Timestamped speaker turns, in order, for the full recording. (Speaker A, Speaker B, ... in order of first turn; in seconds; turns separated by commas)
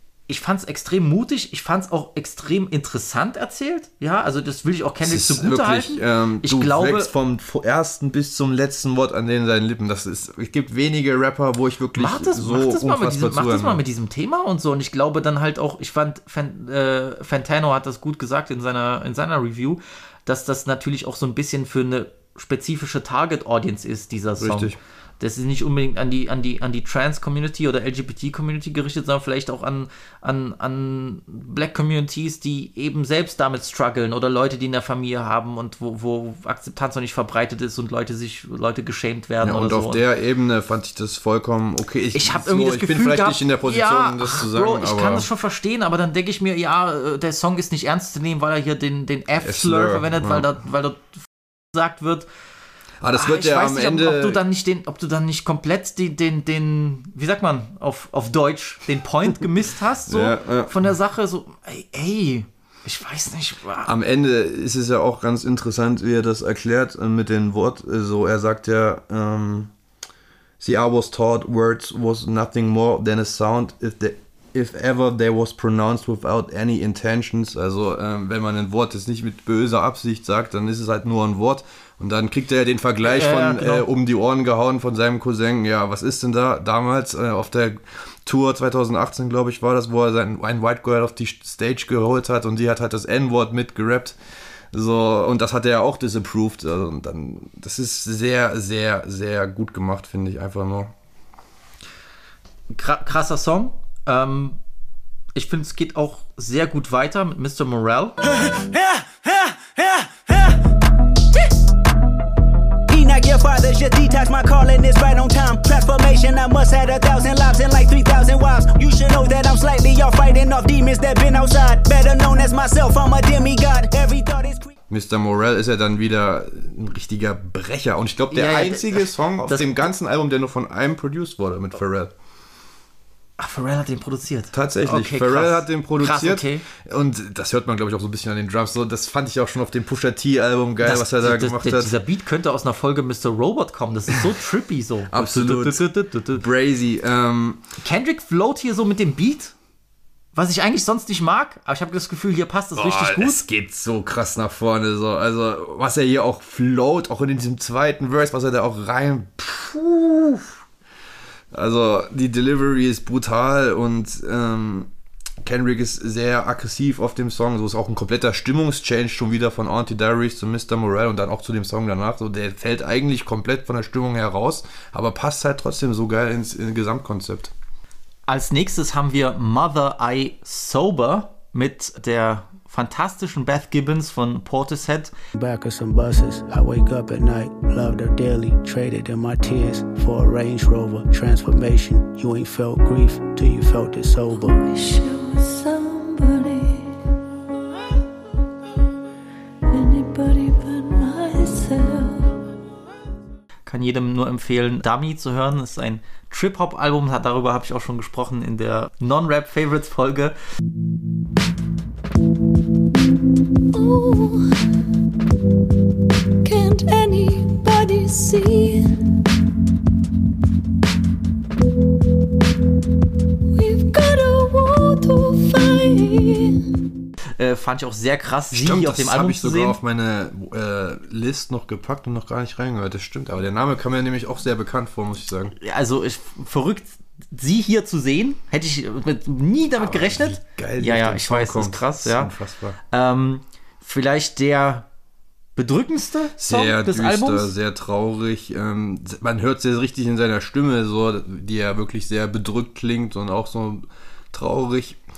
Speaker A: 0.3-7.1, Speaker B: 5.0-13.8, Speaker A: 11.9-40.0, Speaker B: 24.4-24.8, Speaker B: 39.4-45.3, Speaker A: 42.1-52.3, Speaker B: 49.4-50.5, Speaker B: 53.0-54.4, Speaker A: 53.1-63.9, Speaker B: 60.1-60.7, Speaker B: 63.8-69.7, Speaker B: 70.6-94.2, Speaker A: 83.0-83.9, Speaker B: 94.7-100.9, Speaker A: 102.7-104.6, Speaker A: 105.3-108.2, Speaker C: 108.3-110.5, Speaker C: 112.9-124.7, Speaker B: 124.9-132.1, Speaker A: 128.3-129.9, Speaker A: 133.4-136.6, Speaker B: 134.5-141.9, Speaker A: 140.8-146.4, Speaker B: 145.1-147.6, Speaker A: 147.8-149.5, Speaker A: 150.3-153.4, Speaker B: 152.7-160.6, Speaker B: 161.5-164.9, Speaker B: 165.4-177.5, Speaker A: 178.3-185.1, Speaker D: 185.3-194.6, Speaker E: 194.3-197.0, Speaker E: 199.7-202.4, Speaker A: 203.7-210.3, Speaker E: 213.7-214.6, Speaker E: 216.4-218.8, Speaker E: 223.5-226.6, Speaker A: 227.4-229.8, Speaker B: 228.5-235.5, Speaker A: 235.6-242.3, Speaker B: 239.8-242.8, Speaker A: 242.9-244.8, Speaker A: 245.6-247.5, Speaker B: 246.4-255.0